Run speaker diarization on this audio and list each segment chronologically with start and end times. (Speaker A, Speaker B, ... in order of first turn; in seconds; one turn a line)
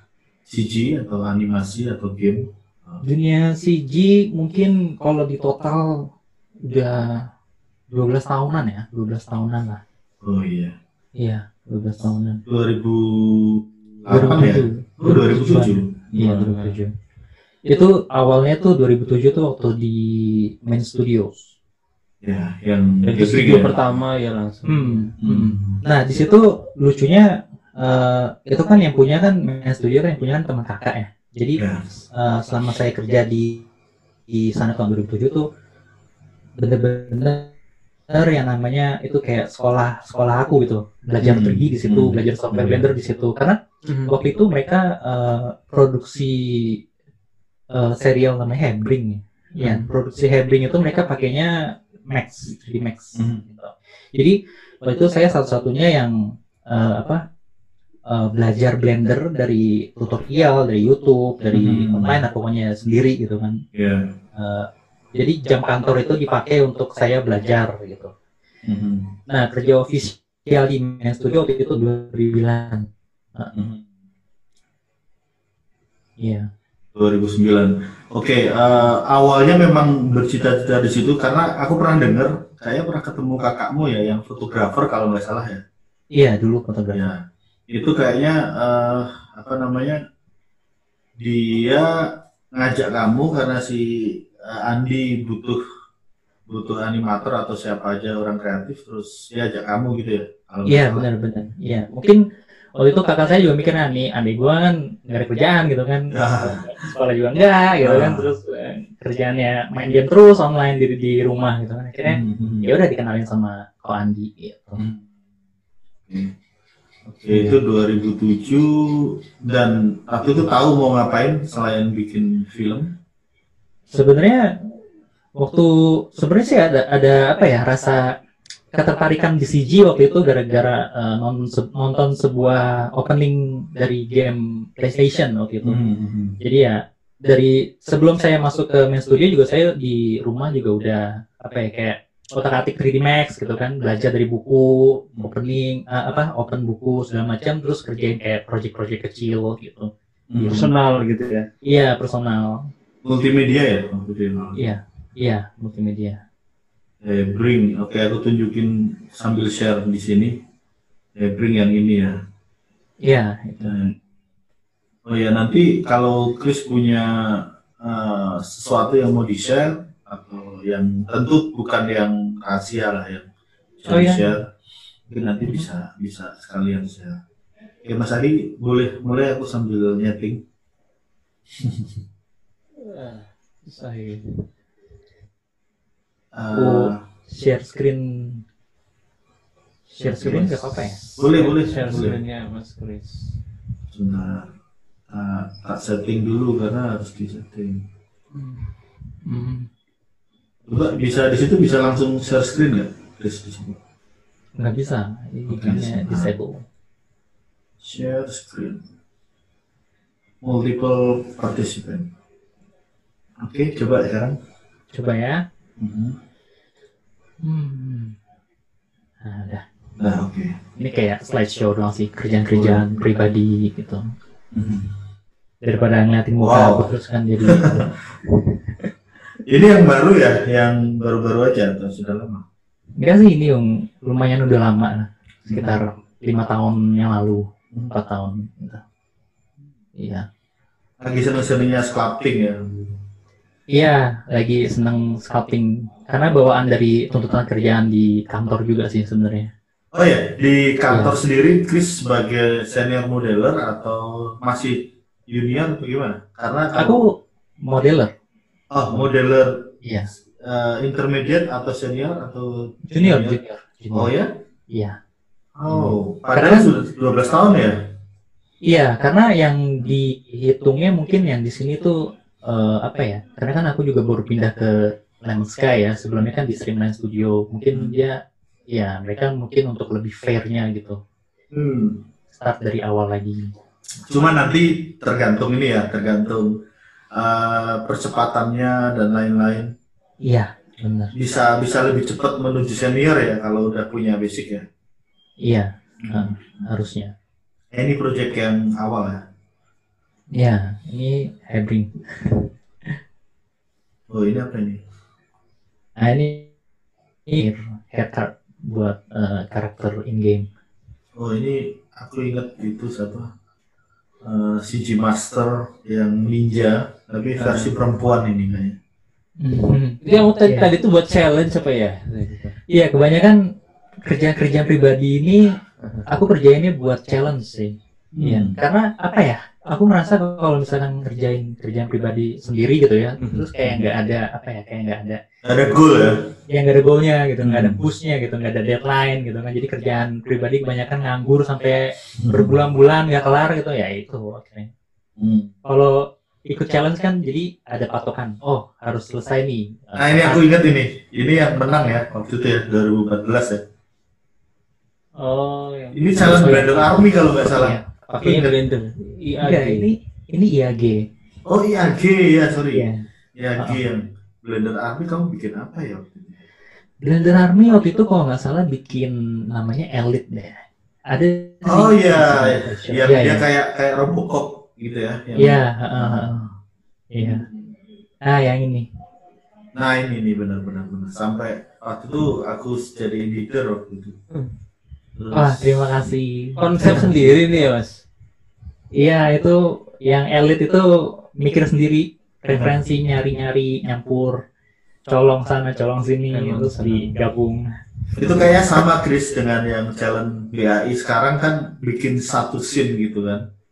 Speaker A: 0.5-3.0
Speaker B: 3.0-6.0
Speaker B: 6.7-7.2
Speaker B: 7.9-9.8
Speaker A: 10.2-10.7
Speaker B: 11.2-12.4
Speaker A: 12.5-16.5
Speaker B: 14.1-16.9
Speaker C: 16.2-16.8
Speaker B: 17.7-21.4
Speaker A: 22.2-23.7
Speaker C: 23.0-25.1
Speaker B: 24.7-27.3
Speaker A: 25.2-25.8
Speaker B: 27.8-31.6
Speaker A: 31.6-31.9
Speaker B: 32.1-33.6
Speaker B: 34.3-35.5
Speaker B: 36.6-37.5
Speaker B: 38.1-43.6
Speaker A: 41.2-42.9
Speaker C: 43.8-44.1
Speaker B: 44.1-46.8
Speaker B: 47.7-51.5
Speaker B: 52.1-56.1
Speaker A: 53.1-53.4
Speaker B: 56.7-57.2
Speaker B: 58.1-63.6
Speaker A: 61.5-62.2
Speaker A: 63.7-64.1
Speaker B: 64.3-68.1
Speaker A: 68.7-69.1
Speaker B: 69.3-73.5
Speaker A: 73.5-73.8
Speaker B: 76.2-76.4
Speaker A: 76.9-85.6
Speaker B: 86.2-87.1
Speaker A: 86.9-90.0
Speaker A: 91.2-91.9
Speaker A: 92.5-95.6
Speaker A: 96.5-101.0
Speaker B: 100.7-102.2
Speaker B: 102.8-114.8
Speaker A: 106.1-106.7
Speaker A: 107.8-108.2
Speaker A: 112.1-112.7
Speaker A: 117.1-122.9
Speaker B: 117.3-117.5
Speaker B: 123.9-124.4
Speaker B: 125.4-128.0
Speaker B: 128.7-135.8
Speaker A: 135.6-136.3
Speaker B: 136.4-149.9
Speaker A: 150.3-150.7
Speaker C: 150.4-151.5
Speaker B: 151.6-152.6
Speaker A: 153.0-154.6
Speaker B: 154.6-156.2
Speaker A: 157.0-160.3
Speaker A: 161.2-162.2
Speaker B: 163.0-163.7
Speaker A: 163.6-163.9
Speaker A: 165.1-173.2
Speaker A: 173.8-174.5
Speaker B: 173.9-174.3
Speaker A: 175.1-177.2
Speaker A: 177.8-180.4
Speaker A: 181.6-182.0
Speaker C: 182.8-184.4
Speaker A: 186.3-187.0
Speaker B: 186.5-188.4
Speaker B: 190.0-191.0
Speaker A: 190.1-190.5
Speaker C: 190.2-193.3
Speaker A: 191.2-192.2
Speaker A: 193.9-194.5
Speaker A: 195.1-197.8
Speaker B: 198.3-198.6
Speaker B: 199.2-199.7
Speaker A: 200.7-203.8
Speaker B: 204.6-206.6
Speaker A: 205.5-206.3
Speaker A: 207.8-208.8
Speaker A: 210.4-212.1
Speaker A: 213.4-214.4
Speaker B: 214.9-215.4
Speaker A: 215.8-216.2
Speaker B: 217.4-218.1
Speaker B: 219.2-219.6
Speaker A: 220.0-220.6
Speaker B: 220.8-224.0
Speaker A: 222.5-222.8
Speaker A: 224.5-224.9
Speaker B: 225.6-227.9
Speaker A: 226.4-226.9
Speaker A: 227.4-227.8
Speaker A: 229.5-232.4
Speaker B: 233.0-238.8
Speaker A: 235.5-235.8
Speaker B: 240.0-240.2
Speaker A: 241.0-242.9
Speaker B: 243.7-249.5
Speaker A: 249.9-257.0
Speaker B: 250.9-251.2
Speaker B: 256.7-257.1
Speaker B: 257.6-258.1
Speaker A: 258.7-259.7
Speaker B: 259.8-260.1
Speaker A: 260.4-263.4
Speaker B: 262.9-264.1
Speaker A: 263.9-264.3
Speaker A: 265.6-267.7
Speaker B: 265.7-266.7
Speaker B: 268.7-274.7
Speaker B: 275.2-278.2
Speaker B: 278.7-281.0
Speaker A: 281.5-282.0
Speaker B: 282.3-283.4
Speaker A: 284.1-286.5
Speaker A: 287.1-289.7
Speaker B: 290.2-291.1
Speaker A: 291.1-294.6
Speaker B: 295.4-297.1
Speaker A: 296.0-296.6
Speaker A: 297.7-299.2
Speaker B: 300.3-302.5
Speaker A: 304.1-304.8
Speaker B: 306.0-306.5
Speaker B: 307.3-310.4
Speaker A: 311.1-313.3
Speaker A: 314.2-318.8
Speaker B: 317.4-317.7
Speaker B: 319.4-320.7
Speaker C: 320.0-322.6
Speaker B: 322.7-323.4
Speaker B: 324.0-325.6
Speaker B: 326.1-335.2
Speaker A: 328.1-328.6
Speaker C: 333.2-333.5
Speaker A: 335.4-336.2
Speaker B: 336.5-344.7
Speaker A: 337.4-337.8
Speaker A: 342.2-342.5
Speaker A: 345.2-345.5
Speaker B: 345.6-350.4
Speaker A: 350.0-353.6
Speaker C: 355.2-356.8
Speaker A: 355.9-357.8
Speaker B: 356.2-356.9
Speaker B: 357.5-358.5
Speaker C: 358.1-359.9
Speaker B: 359.4-361.0
Speaker A: 361.5-366.4
Speaker B: 367.0-370.5
Speaker B: 371.1-373.4
Speaker A: 371.7-376.4
Speaker B: 375.4-376.4
Speaker B: 377.1-377.4
Speaker A: 377.2-377.6
Speaker B: 378.2-378.9
Speaker A: 379.7-384.2
Speaker A: 385.2-385.9
Speaker B: 385.3-387.4
Speaker C: 386.6-388.0
Speaker B: 389.0-390.9
Speaker B: 391.4-394.4
Speaker B: 395.1-397.6
Speaker C: 396.3-397.1
Speaker A: 398.2-403.4